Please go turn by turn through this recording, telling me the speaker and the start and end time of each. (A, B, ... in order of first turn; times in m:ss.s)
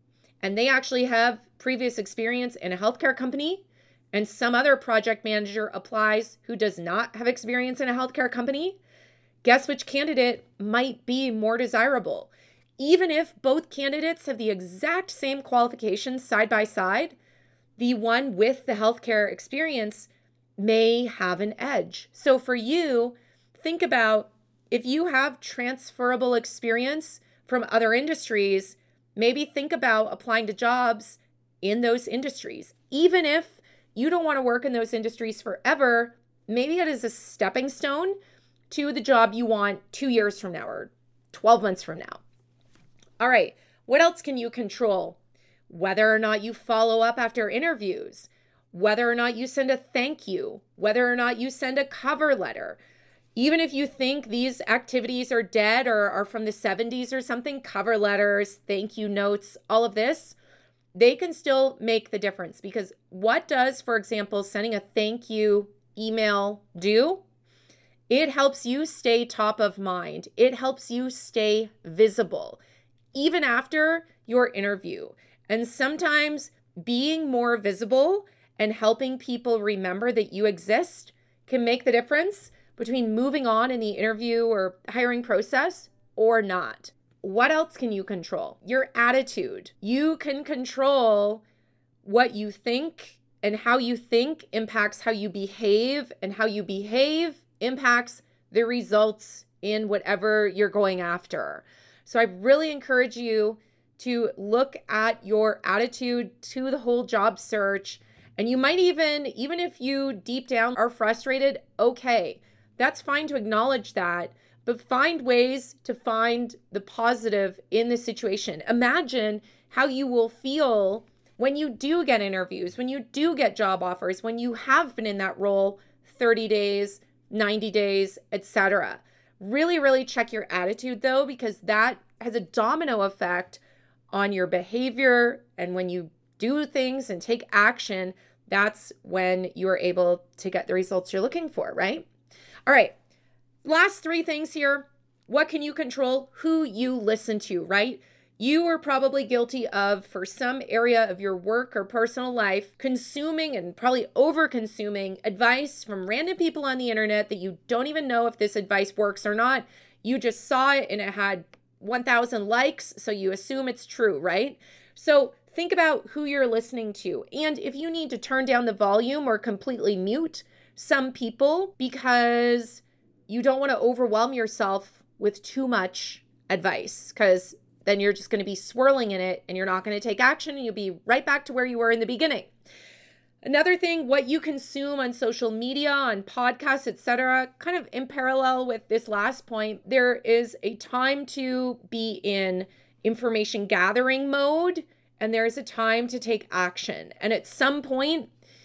0:00.4-0:08.8 A
0:09.4-0:17.2 A
0:17.8-0:38.2 A
0:38.7-0:42.2 A
0:43.2-0:45.2 A
0:45.7-0:52.8 A
0:53.4-1:00.4 A
1:00.9-1:07.2 A
1:08.1-1:12.6 A
1:13.1-1:31.4 A
1:32.0-2:13.6 A
2:14.1-2:22.1 A
2:22.7-2:22.9 A
2:23.6-3:02.5 A
3:03.4-3:18.3 A